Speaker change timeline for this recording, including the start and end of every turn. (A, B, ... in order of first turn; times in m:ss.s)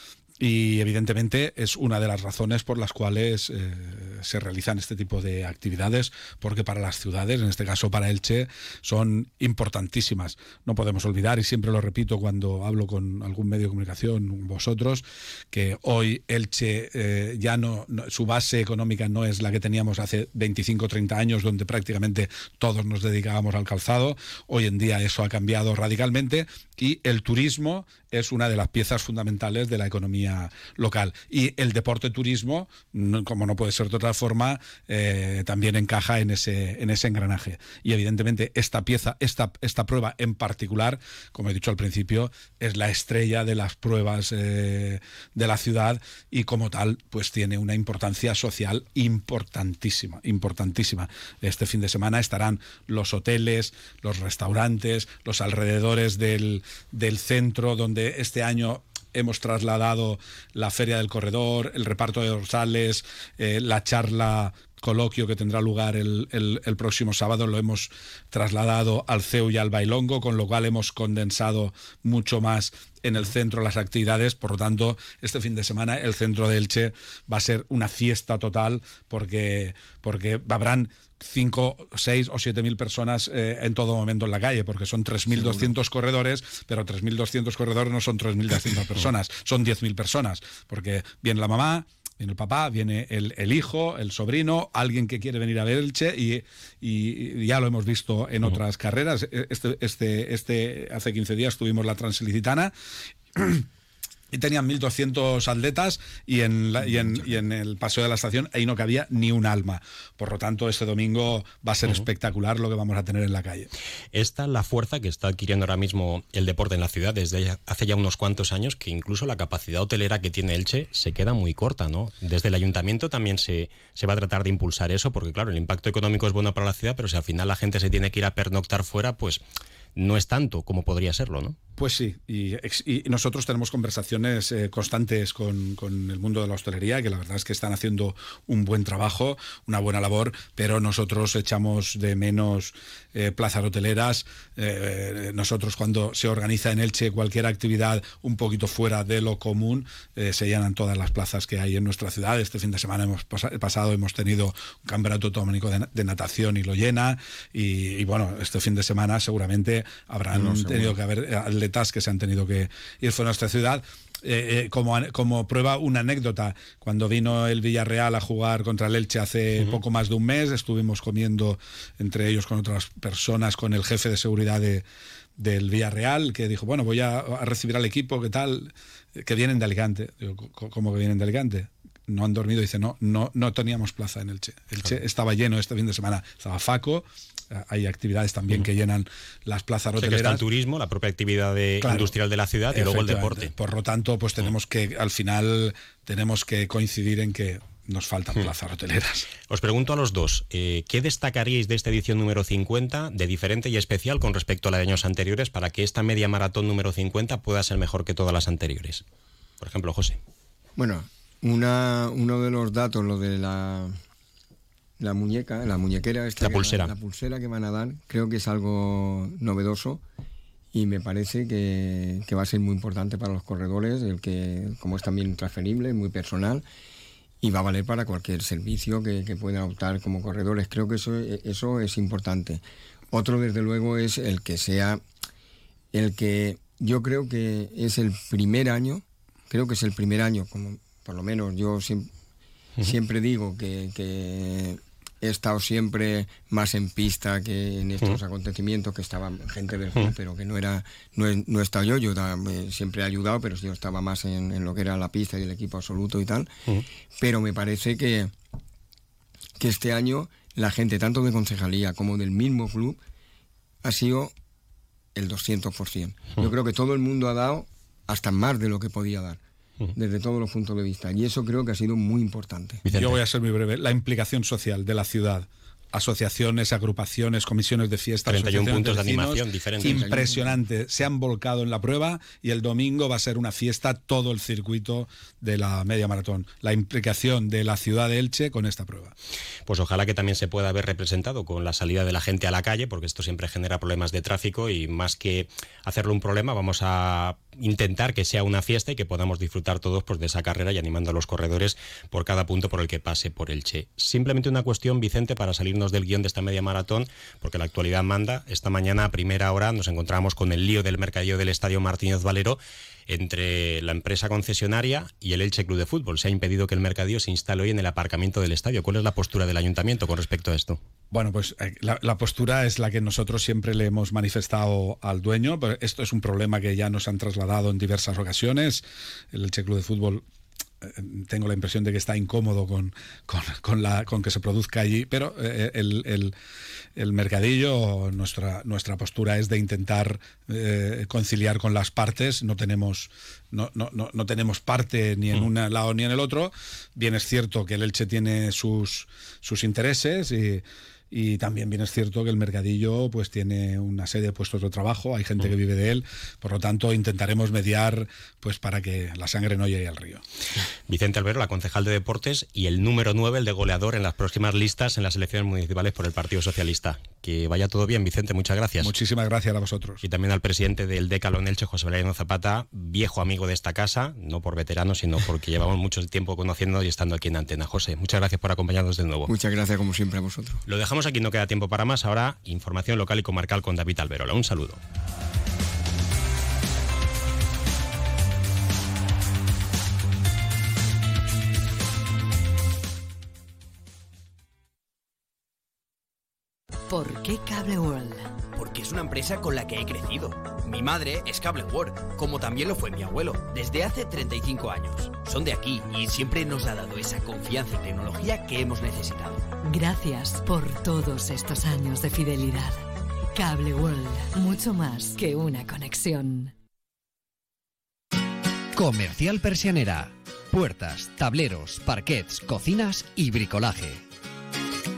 0:00.4-1:42.7 A
1:25.3-1:25.7 B
1:43.4-1:43.6 A
1:44.3-1:53.7 A
1:54.1-2:09.4 C
2:10.0-2:11.6 C
2:11.8-2:54.8 A
2:40.3-2:41.0 B
2:55.4-3:10.4 A
3:10.0-3:13.5 C
3:11.8-3:12.2 A
3:12.7-3:19.3 A
3:19.5-3:29.0 C
3:29.6-3:30.2 C
3:30.8-3:33.9 B
3:35.0-3:40.0 B
3:36.4-3:36.9 C
3:40.7-3:46.6 B
3:47.4-3:55.0 B
3:55.9-4:02.1 B
4:02.8-4:16.5 B
4:17.2-4:18.3 B
4:19.6-4:23.0 B
4:23.8-4:24.3 B
4:25.1-4:29.4 B
4:29.9-4:32.8 B
4:32.8-4:33.2 C
4:32.9-4:49.1 A
4:38.2-4:40.0 C
4:39.8-4:40.6 B
4:49.6-5:20.8 C
5:21.1-5:30.2 A
5:30.8-5:36.3 A
5:37.0-6:00.2 A
6:00.9-6:08.9 C
6:08.8-6:10.0 A
6:10.0-6:19.3 C
6:19.3-6:20.6 B
6:20.6-6:24.8 C
6:36.9-6:38.3 D
6:38.5-6:49.5 E
6:49.7-6:52.8 D
6:53.3-6:56.5 D
6:58.8-7:04.0 F